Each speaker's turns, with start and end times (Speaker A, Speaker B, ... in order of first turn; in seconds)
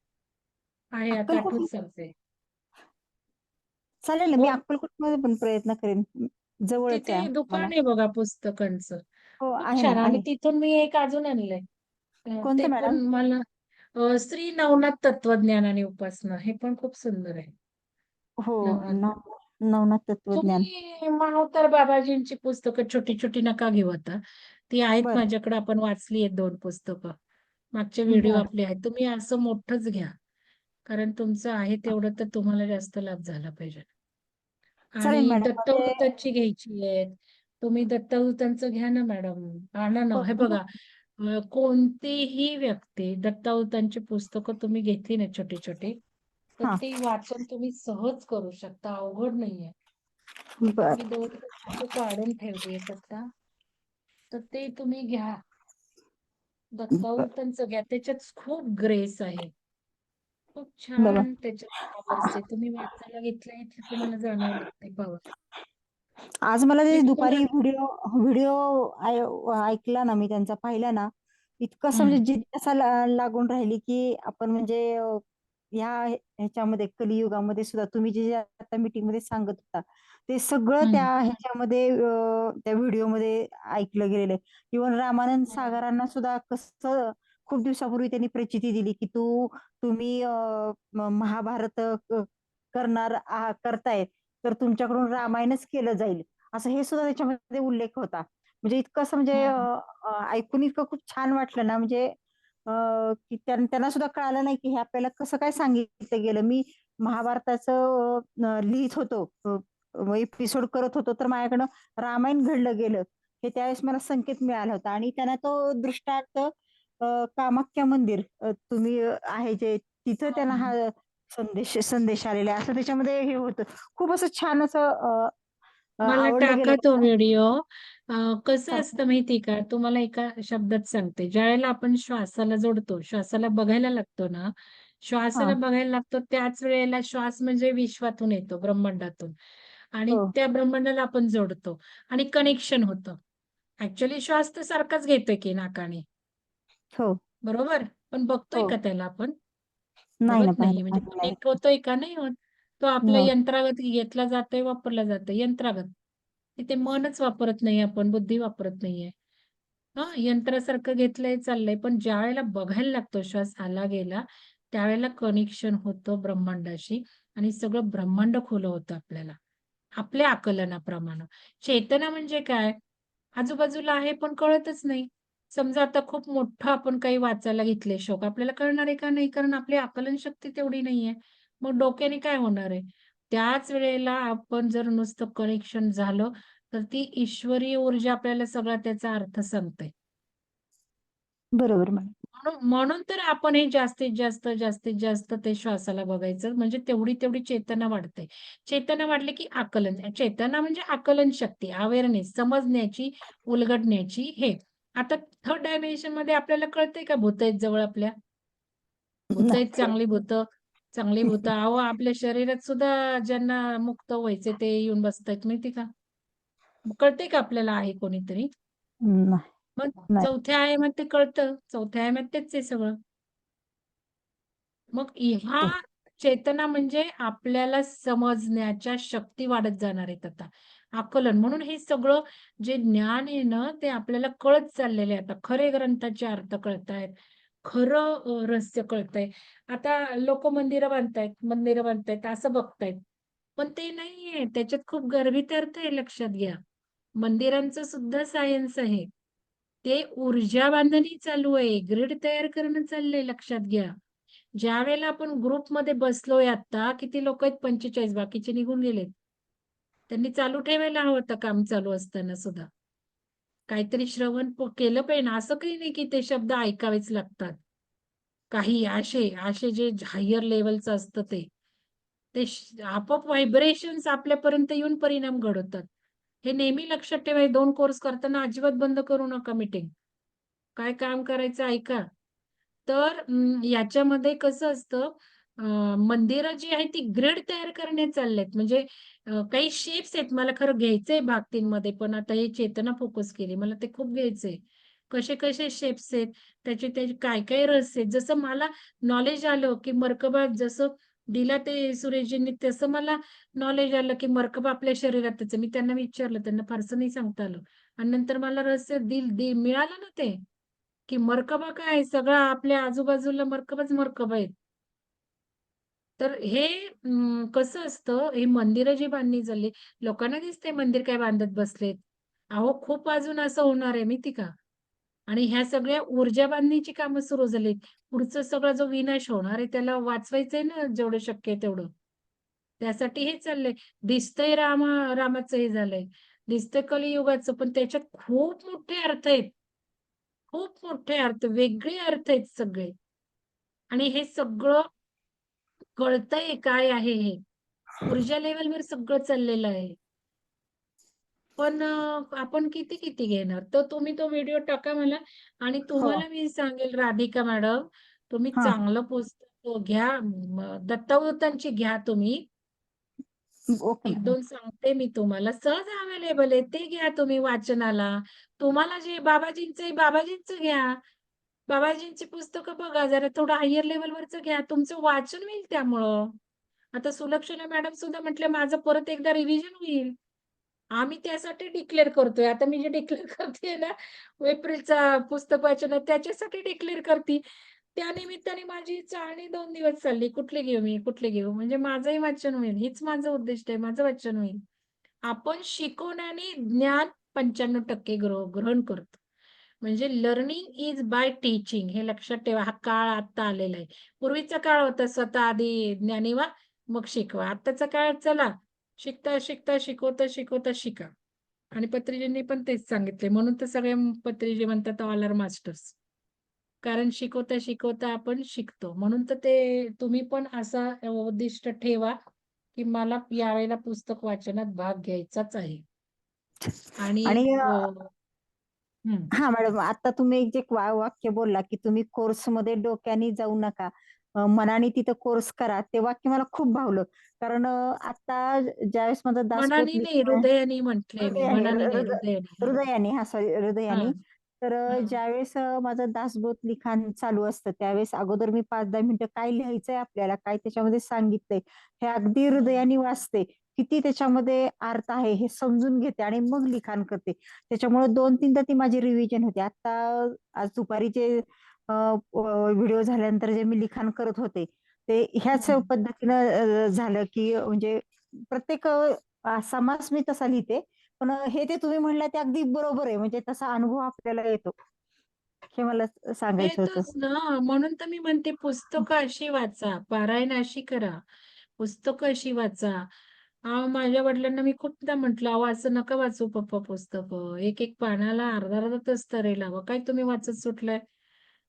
Speaker A: 1.0-2.1, 6.9-9.0, 9.6-11.6, 12.3-13.4, 14.0-17.5, 18.6-19.0, 20.3-24.2, 24.7-27.1, 27.8-30.1, 30.9-33.9, 35.0-46.0, 46.6-49.7, 50.9-53.3, 54.3-55.4, 56.8-59.5, 60.5-65.2, 66.9-67.5, 71.9-72.2, 80.8-81.1, 85.5-85.8, 99.3-99.7, 120.3-120.7, 126.1-134.5, 135.0-139.3, 140.0-143.2, 143.8-146.0, 147.5-149.3, 150.3-155.9, 156.6-159.1, 160.0-169.3, 170.0-172.8, 173.4-189.9, 192.4-208.1, 209.4-215.9, 216.9-218.5, 219.8-223.0, 224.9-237.1, 237.7-243.0, 243.6-246.6, 247.2-249.1, 249.8-253.9, 254.6-259.1, 260.1-262.7, 263.7-267.6, 268.5-271.5, 272.3-275.9, 276.4-279.9, 280.8-282.1, 282.9-294.6, 295.1-310.4, 311.1-314.5, 316.2-322.0, 322.5-324.5, 325.3-331.9, 332.8-339.5, 340.5-342.9, 343.9-344.9, 346.0-347.4, 348.1-350.0, 351.6-362.4, 364.1-371.0, 371.7-376.4, 377.0-380.1, 381.0-387.4, 387.9-394.6, 395.3-399.2, 399.8-411.1, 411.8-415.9, 416.8-422.2, 422.8-425.8, 427.0-428.1, 429.1-429.3, 439.6-442.8, 443.9-444.2, 444.9-445.2, 452.5-452.8, 465.6-465.9, 476.6-481.2, 481.8-483.1, 483.7-491.0
Speaker B: 1.1-1.7, 4.0-7.7, 9.4-10.2, 12.4-13.0, 18.4-20.7, 28.1-28.5, 35.0-35.9, 40.1-40.6, 50.6-51.0, 57.0-57.3, 61.0-61.2, 66.5-75.2, 75.8-102.2, 102.7-125.3, 126.0-127.1, 150.2-151.4, 153.0-153.3, 191.6-192.1, 209.3-209.9, 211.2-211.5, 219.0-219.4, 363.8-364.4, 426.6-427.6, 429.3-440.4, 441.2-474.8, 475.7-477.1